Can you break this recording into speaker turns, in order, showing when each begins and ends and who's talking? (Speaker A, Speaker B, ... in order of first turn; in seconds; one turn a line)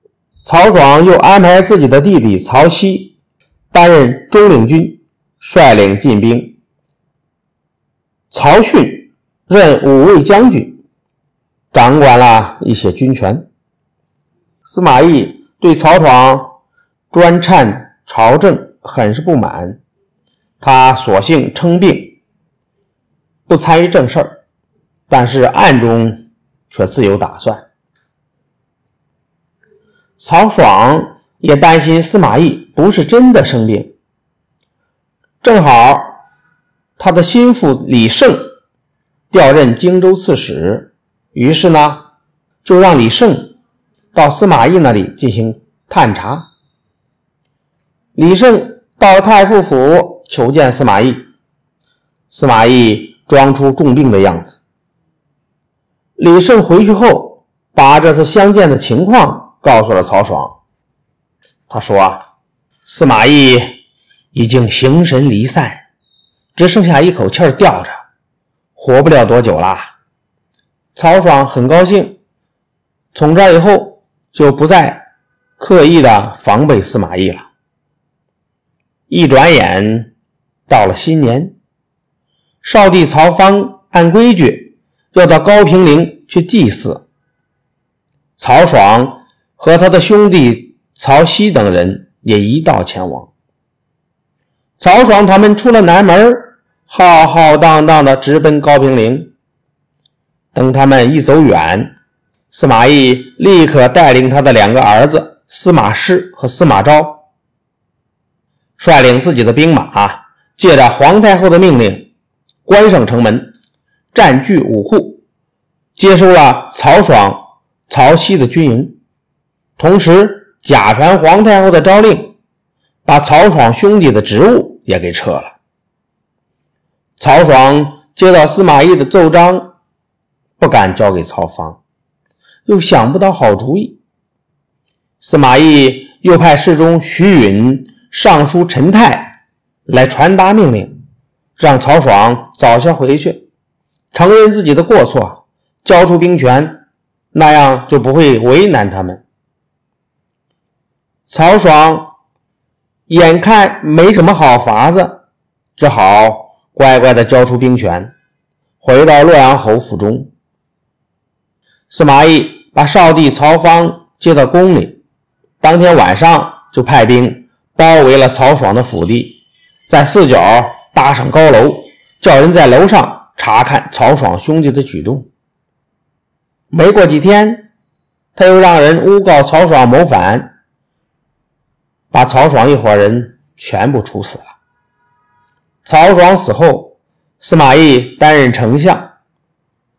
Speaker A: 0.4-3.1
Speaker A: 3.7-6.6
Speaker A: 8.3-10.8
Speaker A: 11.7-13.5
Speaker A: 14.6-16.6
Speaker A: 17.1-19.8
Speaker A: 20.6-22.2
Speaker A: 23.5-24.4
Speaker A: 25.1-27.7
Speaker A: 30.2-33.9
Speaker A: 35.4-36.2
Speaker A: 37.0-38.5
Speaker A: 39.3-42.1
Speaker A: 42.6-43.6
Speaker A: 44.1-46.5
Speaker A: 48.1-51.2
Speaker A: 52.3-54.6
Speaker A: 56.2-60.6
Speaker A: 61.7-62.2
Speaker A: 62.9-63.8
Speaker A: 64.3-65.9
Speaker A: 66.5-68.0
Speaker A: 68.8-69.9
Speaker A: 71.0-72.2
Speaker A: 73.1-77.5
Speaker A: 79.1-80.1
Speaker A: 80.7-81.5
Speaker A: 82.6-87.1
Speaker A: 88.4-93.3
Speaker A: 94.8-99.3
Speaker A: 100.5-101.9
Speaker A: 102.5-107.2
Speaker A: 108.8-112.1
Speaker A: 112.7-113.5
Speaker A: 114.1-115.2
Speaker A: 116.0-119.0
Speaker A: 119.8-122.3
Speaker A: 123.0-125.6
Speaker A: 127.2-129.8
Speaker A: 130.6-131.8
Speaker A: 132.7-134.0
Speaker A: 135.2-140.9
Speaker A: 141.6-143.4
Speaker A: 144.1-149.2
Speaker A: 151.3-152.2
Speaker A: 153.1-155.2
Speaker A: 155.8-158.1
Speaker A: 158.8-160.3
Speaker A: 161.9-165.0
Speaker A: 165.6-175.3
Speaker A: 176.7-177.7
Speaker A: 178.3-180.6
Speaker A: 182.1-184.5
Speaker A: 185.8-189.1